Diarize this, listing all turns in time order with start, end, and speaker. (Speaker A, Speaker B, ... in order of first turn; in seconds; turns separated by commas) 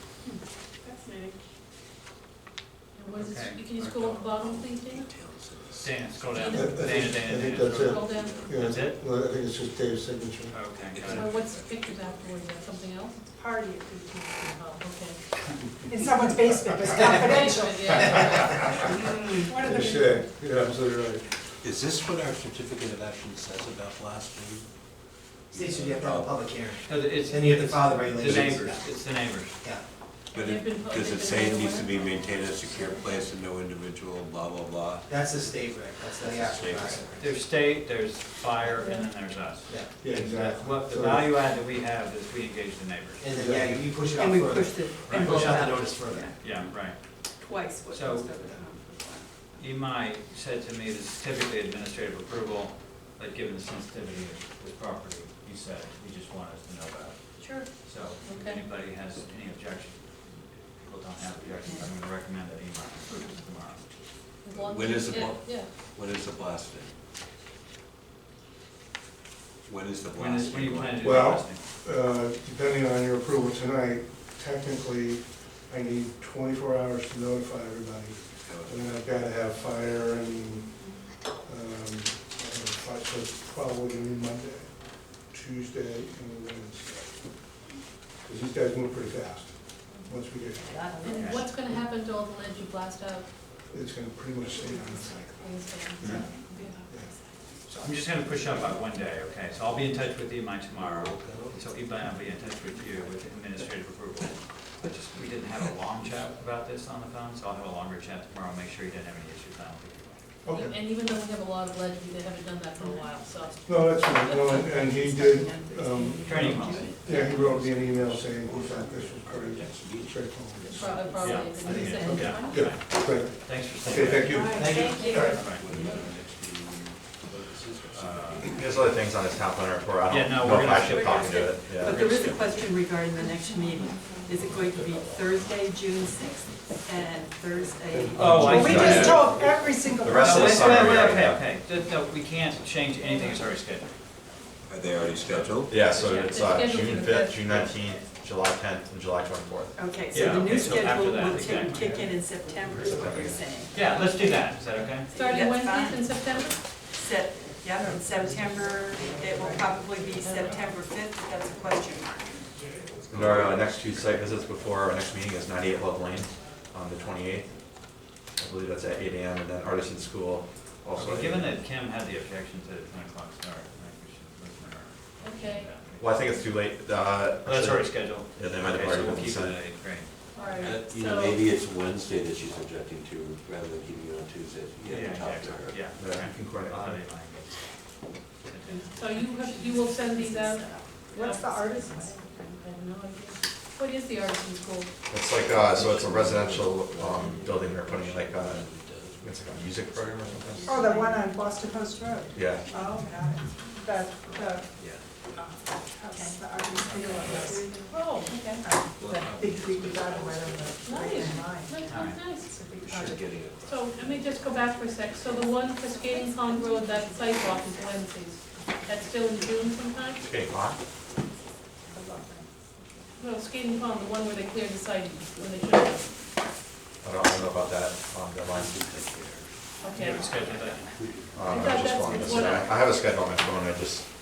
Speaker A: 0.2-1.4, Speaker B: 2.9-5.1, Speaker C: 3.2-3.6, Speaker D: 3.7-6.2, Speaker C: 5.8-9.0, Speaker B: 6.3-7.0, Speaker E: 6.5-11.3, Speaker D: 7.6-8.7, Speaker B: 7.8-8.5, Speaker C: 10.5-11.7, Speaker B: 11.1-13.2, Speaker F: 13.3-14.6, Speaker B: 14.5-15.2, Speaker F: 15.9-18.6, Speaker B: 17.0-20.2, Speaker F: 19.4-20.1, Speaker E: 19.6-21.3, Speaker D: 21.6-24.7, Speaker D: 25.5-26.4, Speaker G: 25.5-28.9, Speaker C: 26.8-29.6, Speaker D: 28.1-28.8, Speaker B: 30.3-33.3, Speaker D: 30.3-35.1, Speaker G: 35.1-37.4, Speaker C: 36.3-43.3, Speaker D: 36.3-37.0, Speaker G: 39.6-39.9, Speaker E: 40.0-41.4, Speaker G: 43.2-46.7, Speaker E: 43.4-43.8, Speaker A: 44.1-46.4, Speaker C: 45.0-47.2, Speaker A: 47.3-49.5, Speaker C: 47.9-48.4, Speaker C: 49.6-63.9, Speaker A: 57.4-57.7, Speaker B: 58.2-58.6, Speaker B: 64.4-65.7, Speaker D: 64.5-66.9, Speaker D: 69.7-71.1, Speaker C: 70.1-71.6, Speaker E: 71.0-87.5, Speaker D: 78.4-78.9, Speaker E: 88.2-90.9, Speaker A: 90.0-91.4, Speaker B: 91.0-93.2, Speaker C: 91.1-91.5, Speaker E: 93.7-97.1, Speaker B: 94.8-96.8, Speaker A: 96.5-96.9, Speaker C: 97.7-110.3, Speaker D: 100.8-101.7, Speaker E: 110.4-110.8, Speaker B: 110.5-114.5, Speaker A: 112.8-113.1, Speaker E: 113.6-121.2, Speaker A: 114.3-116.9, Speaker C: 116.2-117.1, Speaker D: 116.6-122.2, Speaker B: 120.7-122.7, Speaker C: 121.2-126.0, Speaker A: 121.5-122.5, Speaker E: 121.7-125.4, Speaker G: 124.5-125.0, Speaker A: 124.6-125.4, Speaker D: 125.0-128.9, Speaker C: 127.9-128.7, Speaker H: 128.5-132.0, Speaker C: 130.1-132.7, Speaker A: 130.9-138.4, Speaker E: 137.9-139.6, Speaker C: 138.1-139.4, Speaker F: 138.5-140.7, Speaker H: 138.6-139.2, Speaker H: 140.0-141.4, Speaker C: 140.0-143.9, Speaker D: 144.7-145.7, Speaker C: 145.1-146.6, Speaker H: 145.7-149.8, Speaker B: 146.0-147.7, Speaker A: 149.8-153.8, Speaker C: 150.1-151.9, Speaker D: 150.4-151.0, Speaker H: 152.8-153.4, Speaker C: 153.7-155.1, Speaker B: 155.1-156.6, Speaker A: 155.1-162.5, Speaker H: 163.1-167.5, Speaker D: 163.1-163.5, Speaker H: 168.4-171.5, Speaker C: 171.0-176.4, Speaker B: 175.2-175.7, Speaker H: 176.0-179.6, Speaker C: 177.4-180.1, Speaker B: 180.3-181.4, Speaker D: 180.6-185.9, Speaker C: 184.8-187.8, Speaker H: 185.9-187.1, Speaker C: 188.4-189.2, Speaker B: 188.7-194.9, Speaker A: 189.3-191.7, Speaker F: 191.1-192.2, Speaker A: 192.2-192.4, Speaker H: 195.1-198.7, Speaker D: 195.3-201.0, Speaker H: 199.2-200.7, Speaker F: 200.7-204.7, Speaker A: 200.7-201.6, Speaker H: 202.3-202.7, Speaker A: 202.7-203.0, Speaker D: 204.3-205.4, Speaker F: 205.3-207.8, Speaker A: 206.1-209.3, Speaker C: 206.8-207.7, Speaker D: 207.2-207.6, Speaker B: 207.9-208.4, Speaker F: 208.4-211.8, Speaker D: 208.9-211.1, Speaker B: 210.8-212.6, Speaker C: 211.8-212.2, Speaker F: 212.4-213.2, Speaker D: 212.7-215.4, Speaker B: 213.6-220.2, Speaker A: 215.3-218.0, Speaker H: 220.2-220.8, Speaker B: 223.2-226.1, Speaker H: 227.0-228.8, Speaker D: 228.5-231.8, Speaker B: 229.8-230.2, Speaker C: 229.9-230.9, Speaker A: 230.2-230.5, Speaker H: 231.3-234.1, Speaker B: 231.5-232.7, Speaker A: 232.0-232.4